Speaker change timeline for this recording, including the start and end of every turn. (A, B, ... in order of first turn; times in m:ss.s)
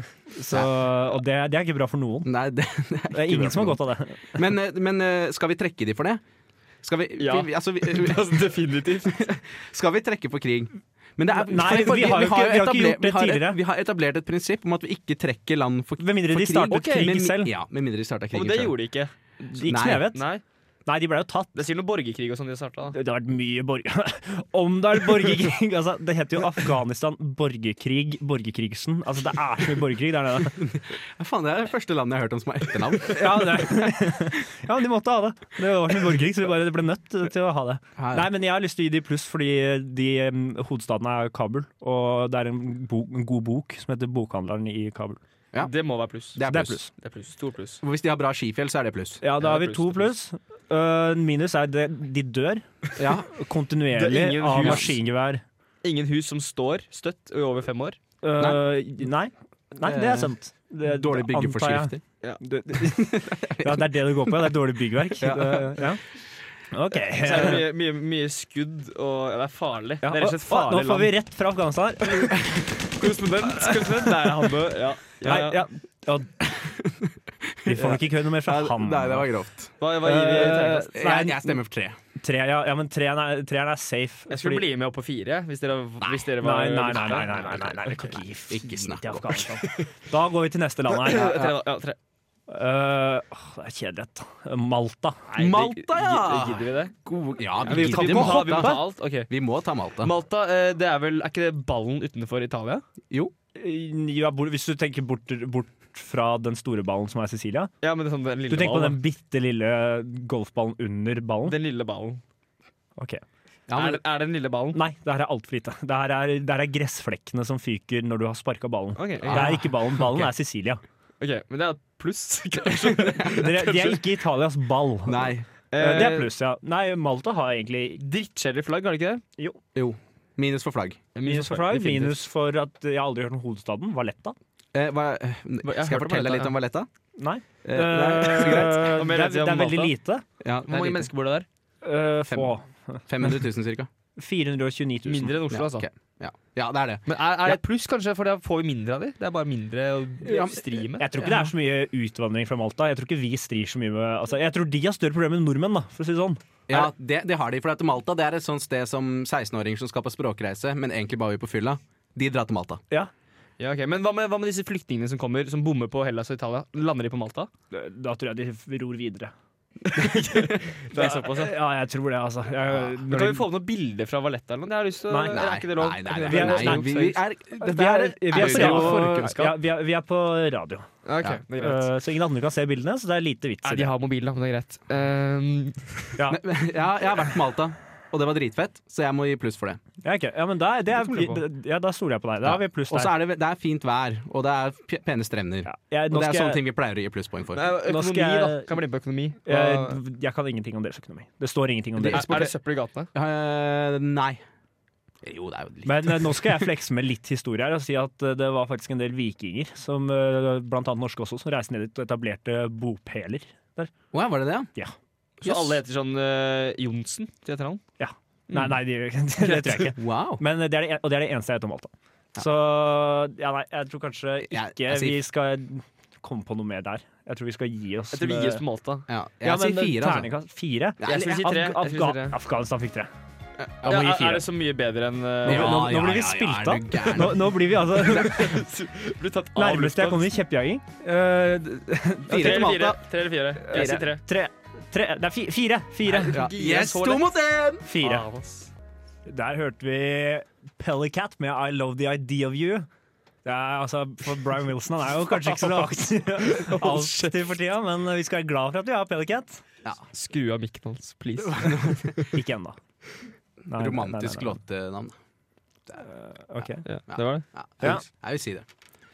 0:00.3-0:02.3 A
0:02.2-0:03.8 B
0:03.1-0:04.4 A
0:04.3-0:06.2 B
0:06.8-0:18.8 B
0:07.2-0:09.3 C
0:11.3-0:13.6 A
0:16.0-0:17.5 A
0:16.7-0:17.2 C
0:18.3-0:19.1 C
0:19.4-0:20.2 A
0:19.6-0:20.1 B
0:20.1-0:20.4 C
0:20.8-0:21.6 A
0:21.5-0:23.0 C
0:22.9-0:30.6 A
0:30.6-0:33.8 B
0:33.1-0:45.2 A
0:38.0-0:38.3 B
0:45.6-0:46.4 C
0:46.3-0:46.8 B
0:46.4-0:46.9 A
0:46.9-0:47.8 C
0:47.8-0:49.2 B
0:49.2-0:52.6 A
0:49.4-0:50.1 C
0:53.0-0:53.3 B
0:53.3-0:55.4 A
0:53.9-0:55.0 C
0:55.8-0:58.0 C
0:58.2-1:06.0 A
0:59.8-1:02.0 B
1:02.8-1:03.9 B
1:05.2-1:05.9 B
1:06.7-1:07.7 A
1:07.2-1:11.1 C
1:10.0-1:12.4 A
1:12.9-1:15.6 C
1:13.4-1:16.3 A
1:16.5-1:17.1 B
1:17.6-1:19.7 B
1:17.6-1:19.3 A
1:19.8-1:20.9 C
1:20.0-1:21.6 A
1:20.4-1:22.0 B
1:22.2-1:24.6 A
1:24.3-1:28.2 C
1:26.4-1:31.4 A
1:28.5-1:29.4 B
1:31.0-1:32.0 C
1:31.1-1:31.6 B
1:32.5-1:35.4 A
1:35.4-1:36.9 C
1:35.4-1:40.1 B
1:37.6-1:39.3 C
1:37.7-1:38.8 A
1:40.0-1:42.8 C
1:43.5-1:47.7 A
1:47.8-1:49.0 C
1:48.5-1:51.6 A
1:51.4-1:52.2 C
1:53.0-1:53.2 A
1:53.7-1:54.0 B
1:53.7-1:54.8 C
1:54.7-2:00.8 A
1:59.0-2:00.3 C
1:59.2-1:59.6 B
2:01.2-2:04.0 C
2:03.2-2:08.0 A
2:05.0-2:05.5 B
2:05.7-2:06.3 C
2:08.0-2:09.2 C
2:09.7-2:11.0 B
2:11.1-2:12.2 C
2:11.2-2:14.3 A
2:14.7-2:16.9 B
2:15.6-2:16.5 C
2:17.2-2:20.2 A
2:17.6-2:19.0 B
2:18.4-2:19.9 C
2:20.4-2:21.1 B
2:20.7-2:21.4 C
2:21.8-2:23.0 A
2:23.1-2:23.9 B
2:24.2-2:25.4 A
2:25.0-2:25.9 C
2:25.5-2:27.0 B
2:27.1-2:31.1 C
2:30.2-2:30.6 B
2:31.0-2:36.9 A
2:36.7-2:42.8 B
2:43.6-2:47.5 C
2:47.7-2:49.3 A
2:50.0-2:50.6 B
2:50.0-2:51.5 C
2:50.9-2:53.4 A
2:53.1-2:57.2 C
2:55.1-2:55.4 A
2:55.3-2:59.3 B
2:56.3-3:00.9 A
2:58.3-2:59.6 C
3:01.0-3:01.9 C
3:01.6-3:03.9 A
3:03.6-3:06.2 C
3:06.2-3:06.4 A
3:06.3-3:09.8 B
3:10.0-3:13.1 A
3:10.9-3:11.4 C
3:12.4-3:17.7 B
3:15.6-3:16.6 A
3:17.5-3:20.0 C
3:17.8-3:18.7 A
3:19.4-3:22.4 A
3:22.0-3:22.5 B
3:22.1-3:23.1 C
3:23.1-3:24.4 B
3:25.2-3:26.6 B
3:25.8-3:33.9 A
3:34.1-3:34.7 B
3:35.4-3:37.8 C
3:35.4-3:35.8 B
3:38.0-3:48.6 A
3:38.5-3:38.8 C
3:39.4-3:39.9 C
3:40.0-3:40.4 B
3:44.5-3:45.2 B
3:48.1-3:49.0 C
3:49.1-3:50.3 B
3:49.4-3:53.1 A
3:51.0-3:52.4 C
3:53.6-3:54.1 B
3:53.8-3:55.9 C
3:53.8-3:54.5 A
3:55.4-3:58.4 B
3:55.4-3:58.6 A
3:58.0-4:00.4 C
3:59.6-4:03.0 A
4:02.3-4:03.0 B
4:02.3-4:04.2 C
4:03.6-4:06.4 A
4:03.7-4:04.0 B
4:06.0-4:07.3 C
4:06.3-4:07.8 B
4:07.8-4:08.2 A
4:08.0-4:08.7 C
4:09.2-4:12.9 A
4:13.4-4:19.6 A
4:15.5-4:15.8 C
4:16.5-4:17.4 C
4:20.1-4:22.3 C
4:21.4-4:22.2 B
4:22.3-4:22.8 A
4:23.7-4:24.6 A
4:23.7-4:25.1 B
4:26.0-4:26.8 A
4:26.6-4:28.6 B
4:26.8-4:27.4 C